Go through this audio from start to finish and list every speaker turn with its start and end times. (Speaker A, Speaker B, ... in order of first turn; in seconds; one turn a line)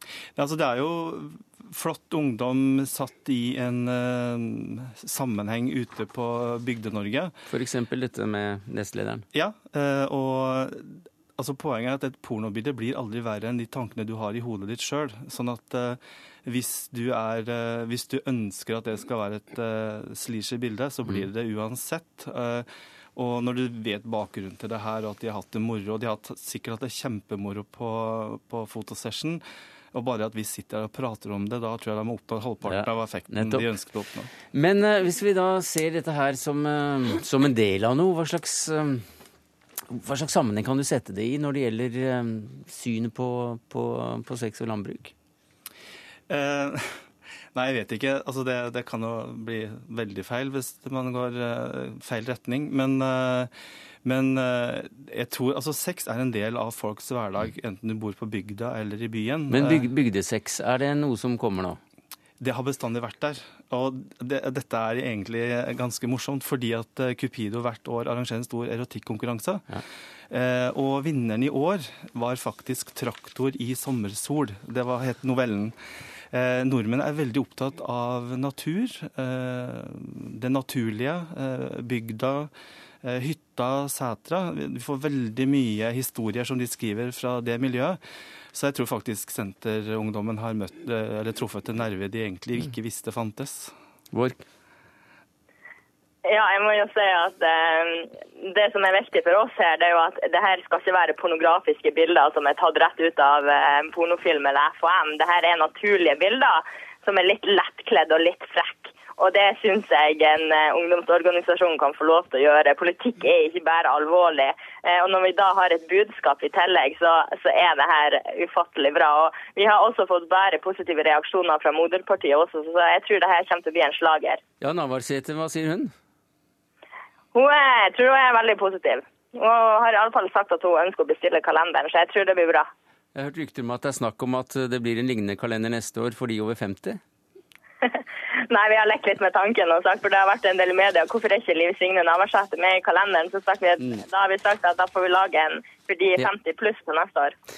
Speaker A: 0.3-7.3
Speaker B: 7.5-9.3
Speaker A: 9.3-34.3
Speaker B: 32.6-33.7
Speaker B: 34.5-39.1
Speaker B: 39.9-45.1
Speaker A: 46.3-46.9
Speaker A: 47.5-53.5
Speaker A: 54.0-59.9
Speaker B: 59.5-61.8
Speaker A: 62.4-75.8
Speaker A: 76.3-82.5
Speaker A: 83.0-88.0
Speaker A: 88.5-93.7
Speaker B: 94.1-94.4
Speaker C: 96.3-124.4
Speaker B: 124.6-125.9
Speaker C: 127.3-132.7
Speaker B: 133.2-137.0
Speaker C: 137.8-147.3